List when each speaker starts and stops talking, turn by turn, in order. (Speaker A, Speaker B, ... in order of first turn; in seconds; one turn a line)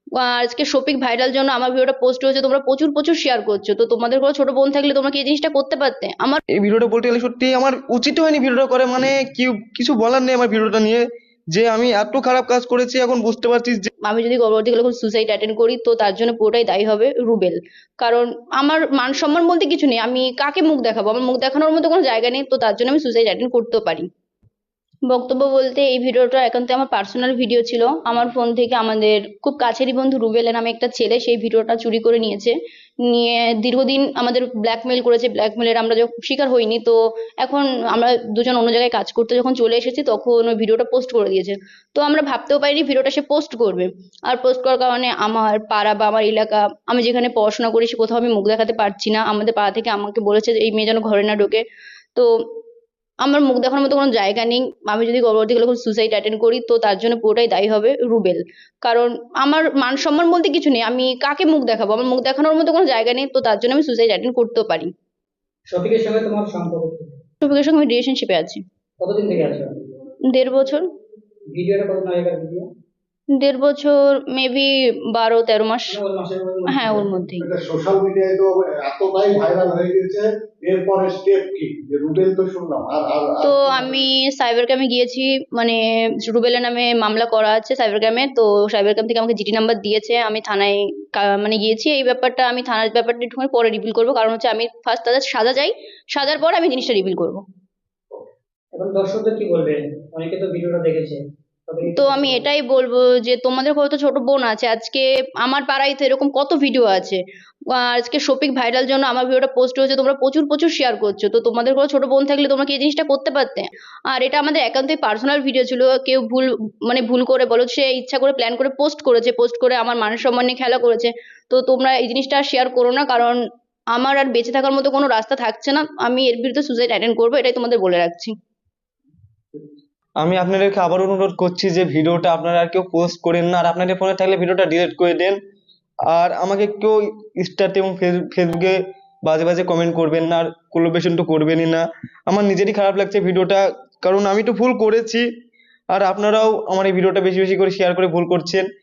Speaker A: 0.2-6.4
Speaker B: 6.6-13.9
Speaker A: 14.1-24.1
Speaker A: 25.1-32.5
Speaker A: 33.0-51.6
Speaker A: 53.2-64.9
Speaker C: 65.7-67.2
Speaker A: 67.4-68.6
Speaker C: 69.0-69.8
Speaker A: 70.3-70.9
Speaker C: 71.5-72.7
Speaker A: 73.4-76.0
Speaker C: 75.9-77.2
Speaker A: 76.7-77.5
Speaker D: 77.4-83.9
Speaker A: 83.4-97.4
Speaker C: 98.7-102.5
Speaker A: 102.0-123.4
Speaker A: 123.9-128.3
Speaker B: 130.2-135.4
Speaker B: 136.1-145.3
Speaker B: 145.9-148.7